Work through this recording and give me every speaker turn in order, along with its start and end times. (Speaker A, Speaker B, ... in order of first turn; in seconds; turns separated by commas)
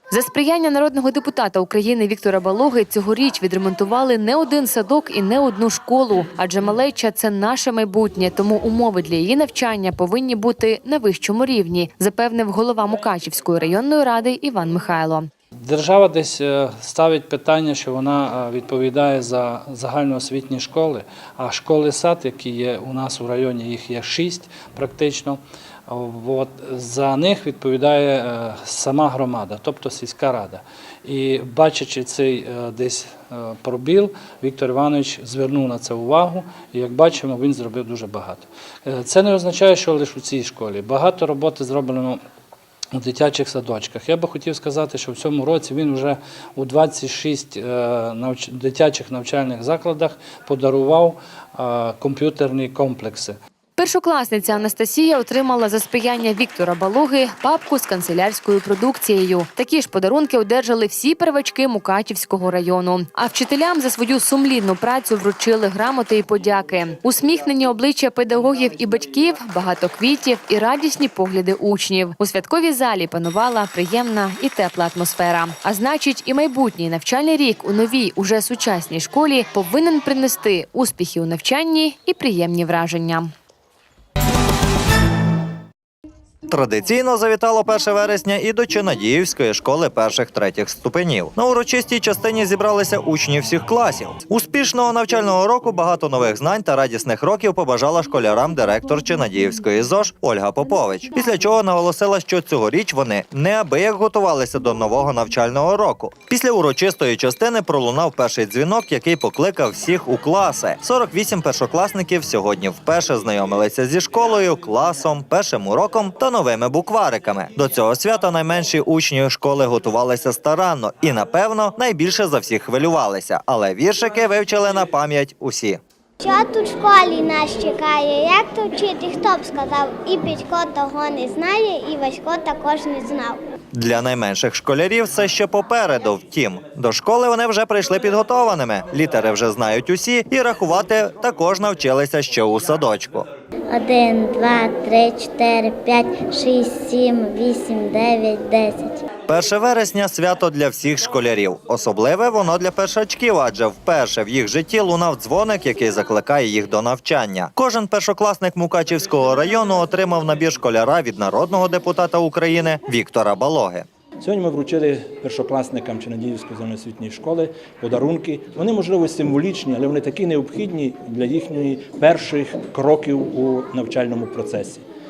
Speaker A: 0.1-15.3, Speaker B: 15.6-42.2, Speaker B: 42.9-53.4, Speaker A: 53.8-83.3, Speaker C: 86.5-125.8, Speaker D: 126.2-133.4, Speaker C: 133.7-143.3, Speaker D: 143.7-149.0, Speaker C: 149.3-163.8, Speaker E: 164.2-174.8